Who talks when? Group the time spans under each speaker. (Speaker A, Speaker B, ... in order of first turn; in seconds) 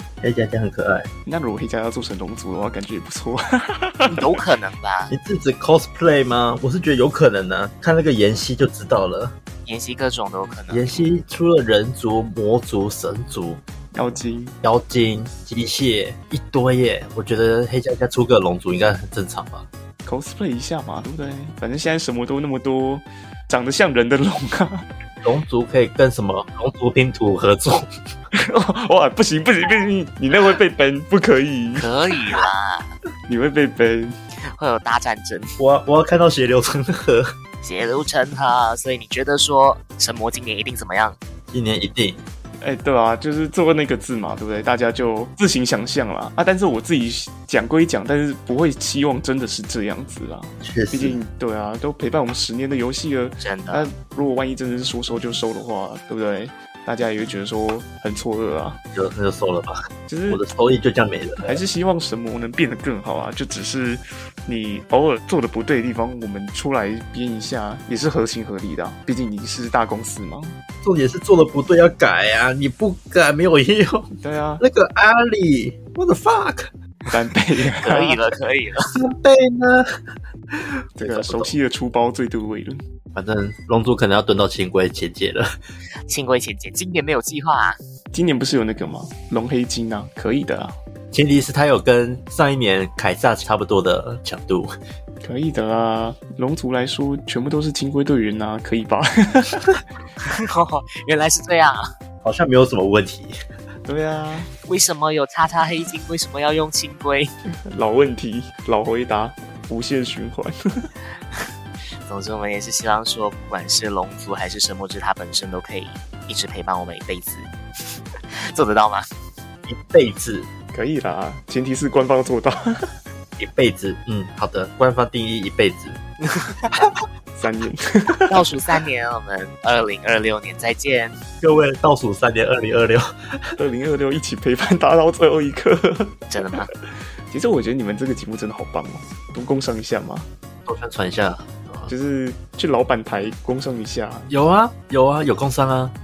Speaker A: 0.2-1.1, 5.1-9.3, 10.7-13.6, 14.6-19.7, 25.2-27.8, 35.6-37.3, 41.5-42.2, 50.6-51.2, 58.9-59.7, 60.3-61.6, 70.8-76.7, 78.9-79.8, 80.5-81.6, 83.1-85.4, 91.1-94.7, 102.2-103.3, 119.7-120.5, 123.4-126.0, 131.4-133.5, 140.7-141.9, 144.3-145.9
Speaker B: 1.2-4.4, 13.9-14.6, 20.0-24.9, 28.3-31.9, 33.3-34.1, 42.6-58.8, 60.1-60.5, 61.4-70.5, 74.2-74.6, 77.1-78.2, 81.0-82.8, 88.1-90.8, 95.2-99.7, 103.8-104.5, 107.7-110.9, 120.7-122.9, 127.4-128.4, 133.6-136.2, 137.3-140.3, 141.9-144.3
Speaker C: 4.1-5.1, 9.6-11.0, 31.8-32.9, 34.5-35.6, 37.6-41.2, 53.4-53.9, 77.8-78.8, 86.1-87.8, 100.2-101.8, 104.6-107.3, 112.0-117.5, 118.5-119.0, 126.3-126.6, 128.3-131.2, 136.3-136.7